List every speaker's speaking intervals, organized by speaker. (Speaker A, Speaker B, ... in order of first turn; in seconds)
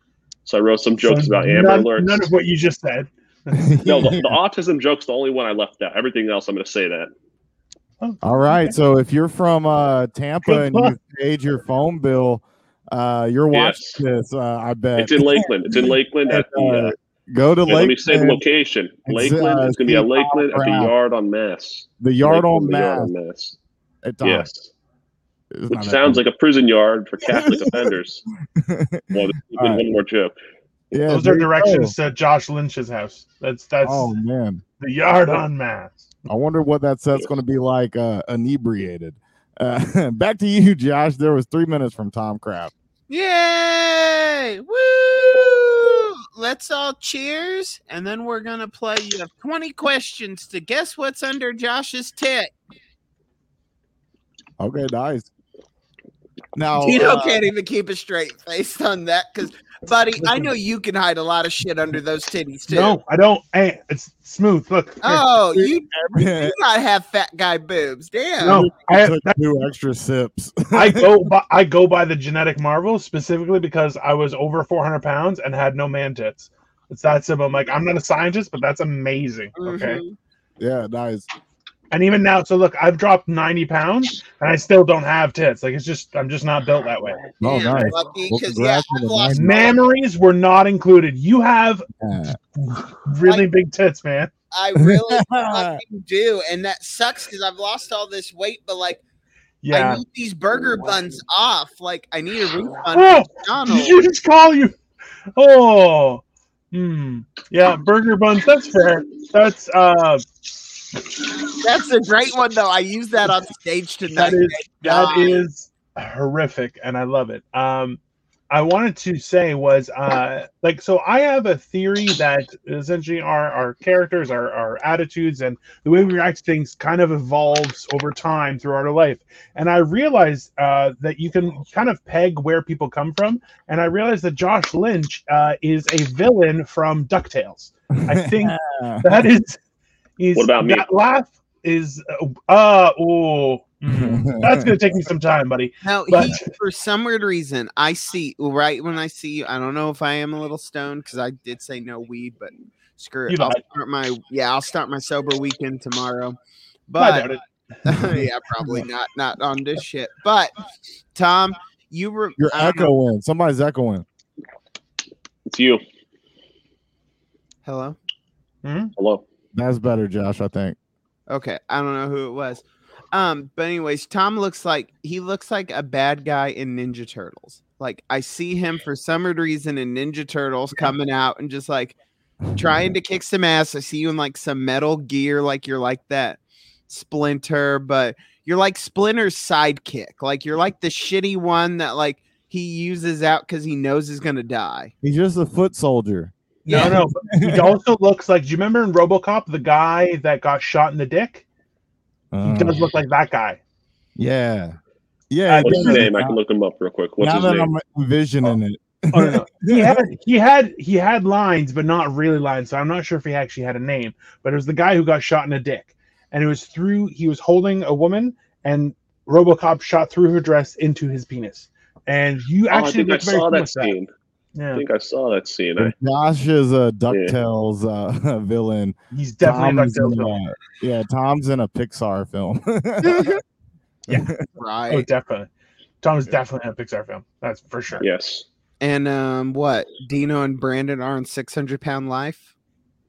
Speaker A: 0.5-2.3, 3.8-7.1, 13.5-14.0, 15.0-16.9, 17.7-23.6, 24.2-24.7, 25.7-28.2, 29.1-30.3, 140.3-140.8, 165.4-165.8, 169.0-169.2, 205.6-207.7, 222.7-224.1, 224.7-225.9, 227.1-227.3, 238.0-238.4
Speaker B: 1.0-3.7, 8.0-8.8, 10.4-10.9, 31.1-34.1, 34.8-36.1, 60.2-60.5, 62.7-65.2, 68.4-69.4, 70.7-80.0, 81.9-87.9, 89.3-91.8, 92.5-94.3, 99.6-100.0, 102.9-104.8, 105.3-110.2, 114.1-118.0, 118.5-139.6, 140.2-146.5, 153.3-153.6, 157.0-158.3, 168.6-168.9, 196.7-201.4, 202.4-203.6, 205.5-206.1, 209.1-223.9, 224.5-224.8, 229.1-230.3, 234.9-235.5, 236.0-238.0
Speaker C: 3.5-4.3, 8.2-18.4, 19.1-20.9, 22.0-23.1, 24.0-24.5, 25.5-26.2, 27.2-27.9, 28.5-29.8, 30.9-31.9, 33.8-34.6, 36.3-42.7, 54.6-55.3, 56.5-57.4, 65.5-66.5, 68.4-71.2, 80.6-81.3, 87.4-89.7, 92.0-92.4, 94.8-95.8, 138.0-139.3, 143.9-144.7, 162.4-164.0, 169.5-170.8, 195.0-197.8, 202.3-202.9, 204.2-204.8, 205.3-206.4, 207.2-210.1, 225.8-233.4, 234.1-234.4
Speaker D: 43.1-52.5, 56.8-63.0, 65.0-68.7, 79.5-80.2, 87.4-89.8, 94.5-99.0, 99.7-104.0, 111.6-115.4, 145.8-156.3, 156.9-157.3, 157.8-160.5, 161.1-162.9, 167.6-168.0, 171.3-181.9, 182.5-194.9, 196.7-196.9, 233.0-233.4, 234.6-235.1, 238.8-242.5